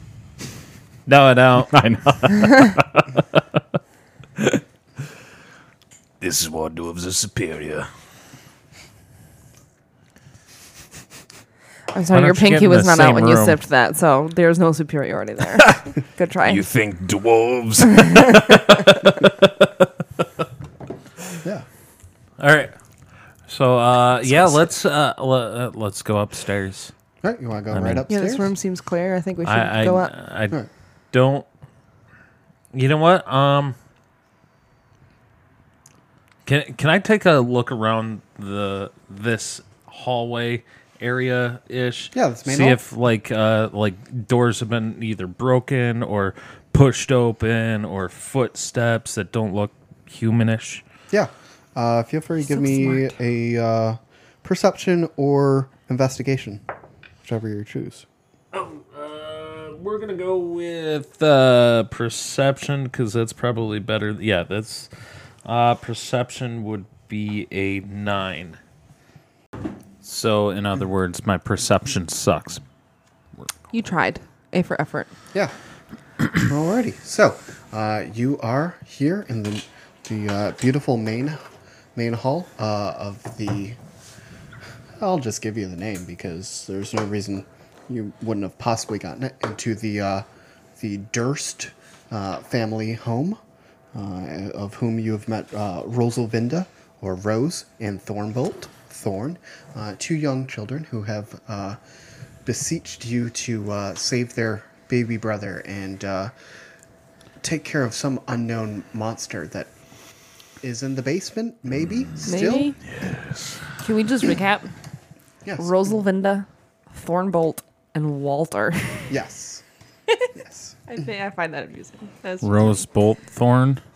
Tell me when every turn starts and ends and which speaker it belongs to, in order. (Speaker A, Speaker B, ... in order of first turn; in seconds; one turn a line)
Speaker A: 1.1-1.8
Speaker B: 1.7-3.4
Speaker B: 6.2-7.9
Speaker C: 11.9-16.6
Speaker A: 12.1-13.6
Speaker B: 16.4-19.9
Speaker A: 22.4-22.7
Speaker A: 23.5-26.9
Speaker D: 27.2-28.5
Speaker A: 27.7-28.1
Speaker C: 28.1-30.1
Speaker A: 29.4-30.6
Speaker A: 31.1-31.5
Speaker A: 32.7-33.8
Speaker A: 36.5-50.8
Speaker D: 42.1-42.8
Speaker D: 51.1-56.6
Speaker C: 52.4-53.1
Speaker D: 57.2-58.0
Speaker A: 58.5-64.9
Speaker A: 65.5-68.6
Speaker A: 70.0-72.6
Speaker C: 73.7-75.1
Speaker D: 76.4-81.4
Speaker D: 82.0-83.8
Speaker D: 85.0-90.2
Speaker D: 90.8-93.4
Speaker D: 93.9-101.8
Speaker D: 102.4-106.3
Speaker D: 107.4-109.7
Speaker D: 110.6-112.8
Speaker C: 112.2-112.8
Speaker B: 112.9-113.6
Speaker C: 113.8-114.7
Speaker D: 115.5-115.7
Speaker C: 115.6-119.1
Speaker D: 119.1-119.6
Speaker D: 120.3-120.8
Speaker C: 120.9-122.8
Speaker A: 122.4-123.8